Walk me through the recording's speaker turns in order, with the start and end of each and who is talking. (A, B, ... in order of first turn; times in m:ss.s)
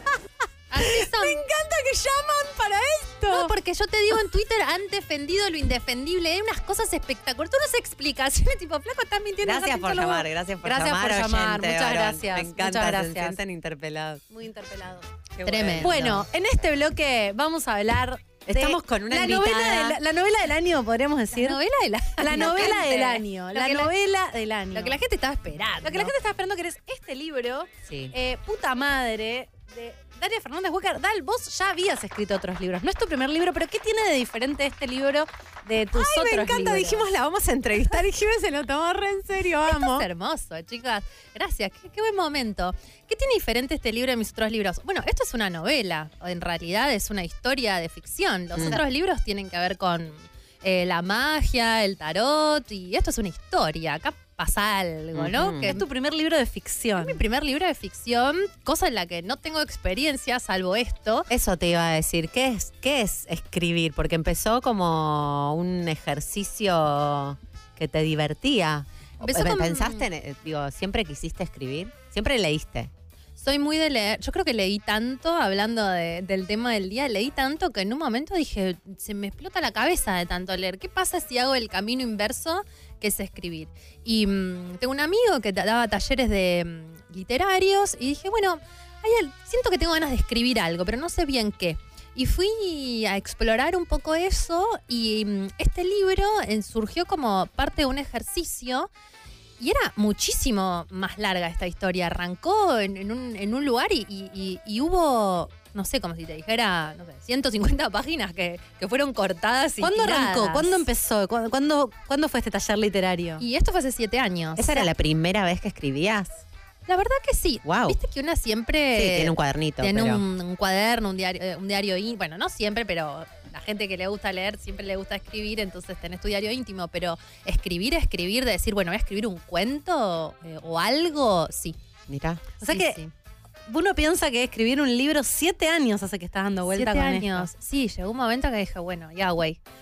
0:00.7-0:01.5 A
0:01.0-0:03.5 B
0:03.3-0:09.5 A
0:09.4-0:13.4 B
0:09.4-0:14.2 C
0:14.3-0:15.1 B
0:15.3-0:16.2 C
0:15.4-0:15.9 A
0:15.8-0:21.6 B
0:18.5-0:20.0 C
0:21.3-0:23.9 A
0:22.2-0:25.0 B
0:24.7-0:26.1 A
0:25.8-0:37.1 B
0:27.8-0:28.1 C
0:35.9-0:40.1 C
0:39.7-0:55.8 A
0:48.6-0:48.8 C
0:55.1-0:55.8 C
0:55.7-0:57.2 B
0:57.0-1:01.3 A
1:01.3-1:12.9 C
1:09.2-1:10.0 A
1:13.4-1:38.9 A
1:39.6-1:50.8 A
1:49.8-1:53.4 B
1:53.4-1:54.9 A
1:54.6-1:56.4 C
1:56.9-2:11.8 A
1:57.6-1:58.0 C
1:58.9-2:00.2 C
2:12.1-2:12.5 C
2:12.6-2:13.1 A
2:12.6-2:13.0 B
2:13.7-2:17.5 B
2:16.7-2:19.6 A